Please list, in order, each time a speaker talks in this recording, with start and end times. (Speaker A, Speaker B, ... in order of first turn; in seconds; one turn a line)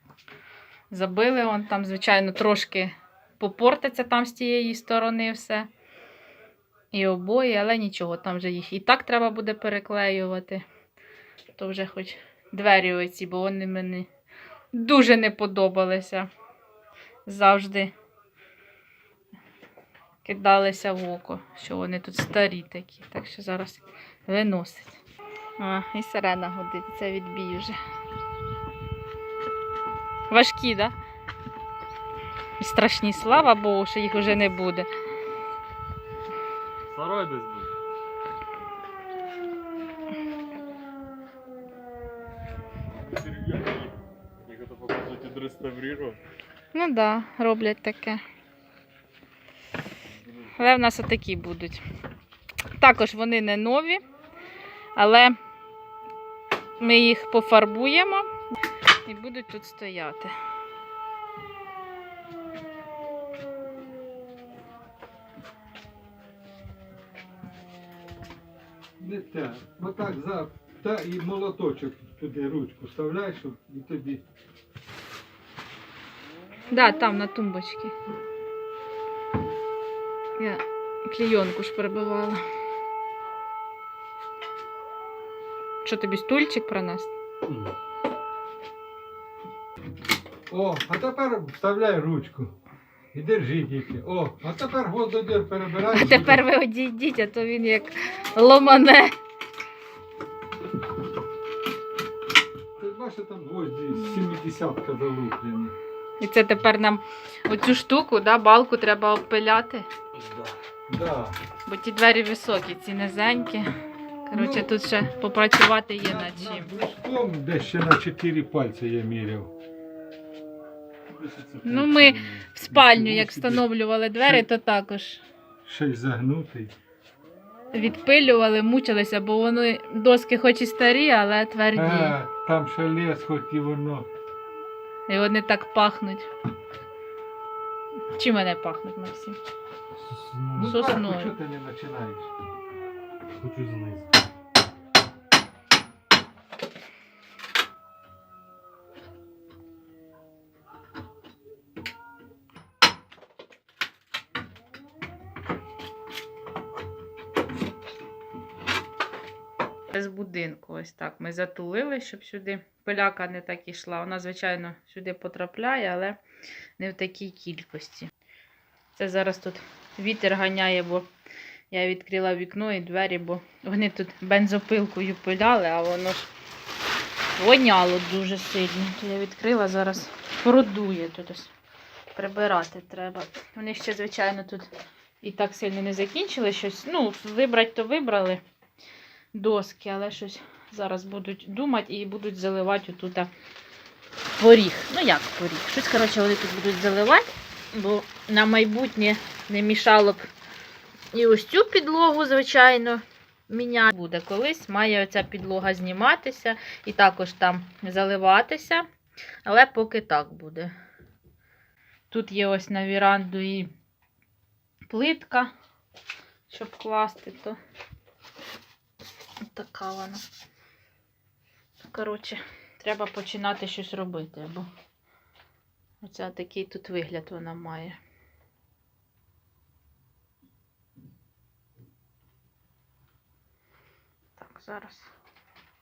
Speaker A: 0.9-5.7
Speaker A: 6.9-10.6
Speaker A: 11.6-14.1
Speaker A: 14.7-16.3
Speaker A: 17.3-17.9
Speaker A: 20.2-25.0
Speaker A: 25.6-27.8
Speaker A: 30.3-30.9
Speaker A: 32.6-34.9
Speaker B: 36.9-37.7
Speaker B: 43.2-43.9
Speaker B: 44.5-46.2
Speaker A: 46.7-48.2
Speaker A: 50.4-51.8
Speaker A: 52.8-54.0
Speaker A: 55.0-55.4
Speaker A: 56.8-58.3
Speaker A: 59.1-60.3
Speaker C: 69.0-74.2
Speaker A: 76.7-77.9
Speaker A: 80.4-82.4
Speaker A: 85.8-87.1
Speaker B: 87.5-87.7
Speaker C: 90.5-92.5
Speaker C: 93.1-96.4
Speaker A: 95.9-99.1
Speaker C: 102.8-105.8
Speaker A: 106.2-109.9
Speaker C: 110.9-111.4
Speaker A: 111.7-113.7
Speaker A: 114.3-116.7
Speaker C: 114.3-114.7
Speaker C: 116.0-119.5
Speaker B: 121.2-121.8
Speaker C: 121.2-123.7
Speaker A: 121.6-125.2
Speaker C: 124.2-124.5
Speaker C: 125.7-126.7
Speaker A: 127.7-132.2
Speaker C: 131.8-134.1
Speaker A: 135.1-136.3
Speaker A: 138.2-139.4
Speaker B: 140.0-140.8
Speaker C: 140.6-142.3
Speaker A: 140.6-141.3
Speaker B: 143.3-144.1
Speaker A: 159.9-166.2
Speaker A: 166.8-168.1
Speaker A: 168.9-171.1
Speaker A: 171.7-176.3
Speaker A: 177.4-181.5
Speaker A: 182.2-184.7
Speaker A: 185.2-188.4
Speaker A: 189.3-193.3
Speaker A: 194.4-200.3
Speaker A: 201.1-208.9
Speaker A: 209.4-210.7
Speaker A: 212.1-213.7
Speaker A: 214.9-215.5
Speaker A: 216.5-217.6
Speaker A: 219.4-220.2
Speaker A: 221.8-224.7
Speaker A: 226.0-228.0
Speaker A: 234.4-235.1